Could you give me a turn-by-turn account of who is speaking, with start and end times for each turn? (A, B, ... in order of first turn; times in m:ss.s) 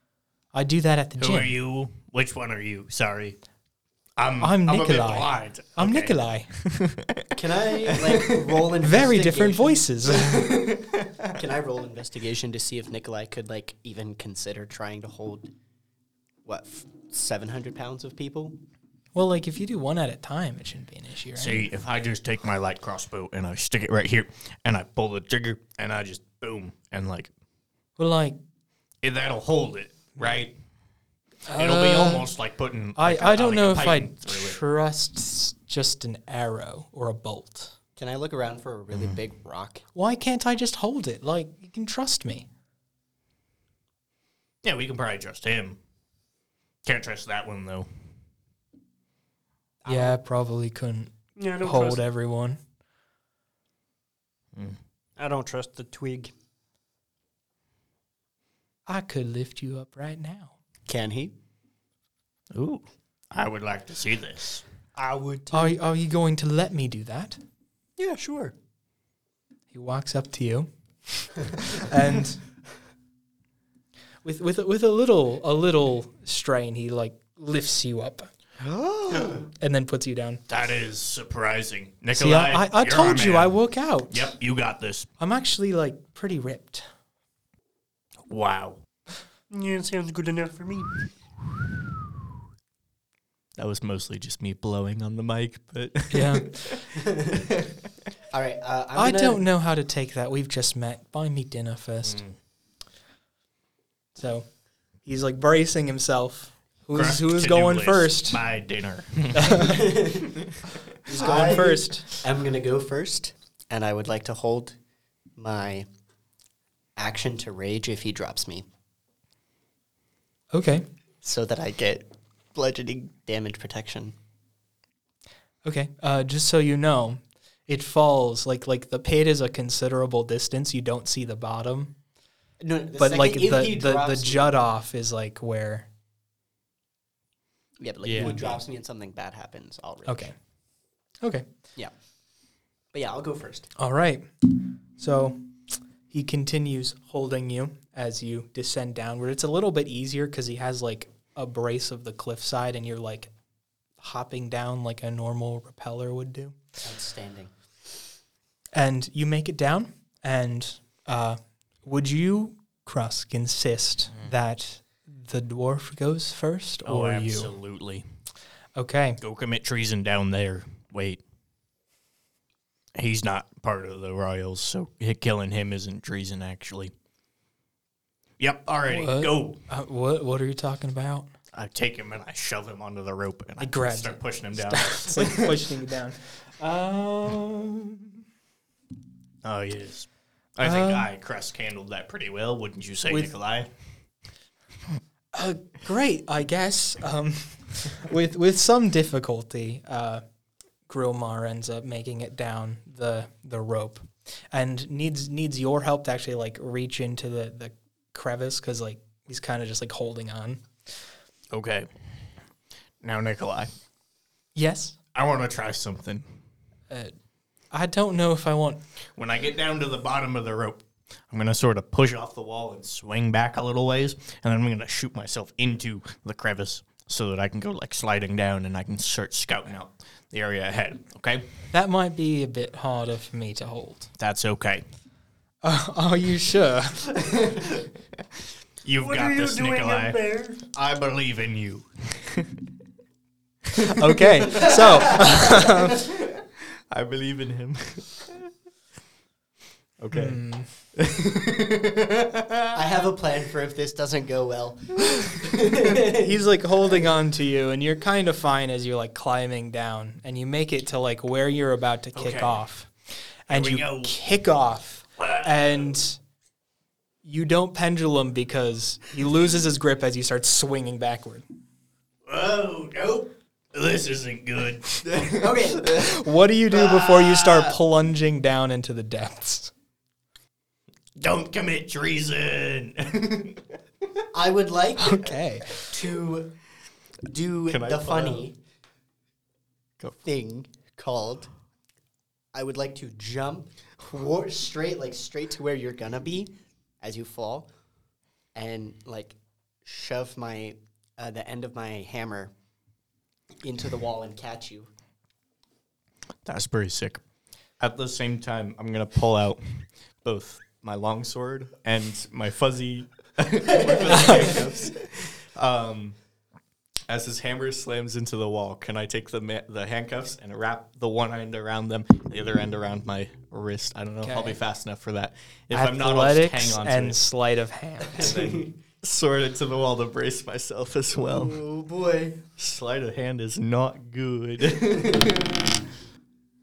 0:00.5-0:01.5 A
0:01.2-0:03.4 B
0:04.2-0:08.7 B
0:04.4-0:06.5 A
0:07.4-0:15.5 C
0:08.8-0:10.4 A
0:10.4-0:11.3 B
0:16.4-0:18.6 C
0:19.1-0:21.7 A
0:21.4-0:27.3 B
0:28.0-0:28.4 A
0:29.0-0:30.5 B
0:31.5-0:32.3 A
0:31.5-0:34.6 B
0:33.0-0:37.7 A
0:38.0-0:39.8 C
0:40.0-0:42.5 A
0:44.6-0:45.8 B
0:46.8-0:47.9 B
0:49.8-0:50.2 C
0:49.9-0:52.6 A
0:51.4-0:52.0 D
0:55.2-0:56.3 D
0:58.9-1:00.6 A
1:00.9-1:01.3 C
1:02.5-1:04.6 B
1:05.0-1:05.8 D
1:05.5-1:07.4 A
1:08.0-1:08.5 C
1:09.7-1:12.4 A
1:14.2-1:18.3 A
1:18.6-1:19.4 B
1:19.5-1:20.4 A
1:20.5-1:23.5 B
1:22.1-1:24.3 A
1:24.1-1:25.1 B
1:25.2-1:26.9 A
1:28.3-1:28.8 B
1:29.5-1:30.9 D
1:33.6-1:36.8 B
1:36.1-1:36.8 A
1:37.0-1:37.7 C
1:38.3-1:39.4 C
1:39.0-1:42.2 A
1:42.0-1:42.3 B
1:44.2-1:44.5 A
1:45.0-1:48.4 A
1:46.9-1:50.4 B
1:49.4-1:49.9 A
1:49.6-1:50.4 C
1:51.1-1:54.8 C
1:51.1-1:52.1 A
1:51.2-1:51.6 B
1:55.4-1:55.9 C
1:57.0-1:58.7 C
2:00.5-2:00.9 A
2:01.2-2:04.2 C
2:05.6-2:11.9 A
2:12.6-2:14.5 C
2:13.0-2:15.9 A
2:17.8-2:20.3 C
2:18.0-2:18.4 B
2:20.1-2:20.4 A
2:22.9-2:23.7 C
2:23.8-2:24.3 A
2:25.0-2:25.4 A
2:26.1-2:33.3 A
2:34.0-2:36.6 A
2:36.8-2:37.5 C
2:38.7-2:47.5 A
2:46.8-2:48.0 B
2:48.8-2:49.2 A
2:49.2-2:51.2 B
2:53.0-2:56.9 B
2:58.4-2:59.6 B
2:58.9-3:01.3 A
3:01.5-3:05.6 B
3:03.6-3:07.9 A
3:09.4-3:13.7 B
3:10.6-3:11.1 A
3:13.1-3:13.3 A
3:15.3-3:20.2 A
3:20.9-3:30.6 A
3:31.5-3:31.9 B
3:33.0-3:33.7 B
3:34.6-3:35.0 A
3:35.1-3:36.2 B
3:37.7-3:38.8 A
3:39.2-3:51.5 B
3:51.7-3:54.1 A
3:54.2-3:54.8 B
3:55.6-3:57.1 A
3:58.8-4:02.5 B
3:59.0-4:00.6 D
4:03.9-4:06.1 A
4:04.5-4:08.5 B
4:10.0-4:12.8 B
4:10.1-4:10.7 A
4:12.7-4:16.3 C
4:16.0-4:22.9 A
4:22.2-4:22.6 B
4:23.5-4:26.2 A
4:23.5-4:24.1 B
4:25.2-4:26.0 B
4:27.2-4:31.4 A
4:32.3-4:36.1 B
4:35.2-4:36.1 C
4:36.0-4:39.7 A
4:36.7-4:37.8 B
4:41.2-4:43.6 B
4:44.3-4:45.3 C
4:45.0-4:45.9 A
4:45.9-4:46.5 C
4:47.3-4:48.6 C
4:47.7-4:48.4 B
4:50.2-4:51.5 C
4:52.5-4:57.7 C
4:58.6-5:02.5 C
5:03.6-5:04.9 C
5:06.4-5:07.2 B
5:07.8-5:16.2 B
5:13.7-5:14.9 C
5:17.1-5:27.2 B
5:24.2-5:24.6 A
5:25.7-5:28.4 A
5:28.1-5:28.7 C
5:28.2-5:31.6 B
5:31.3-5:32.4 C
5:32.6-5:35.8 B
5:34.9-5:35.4 C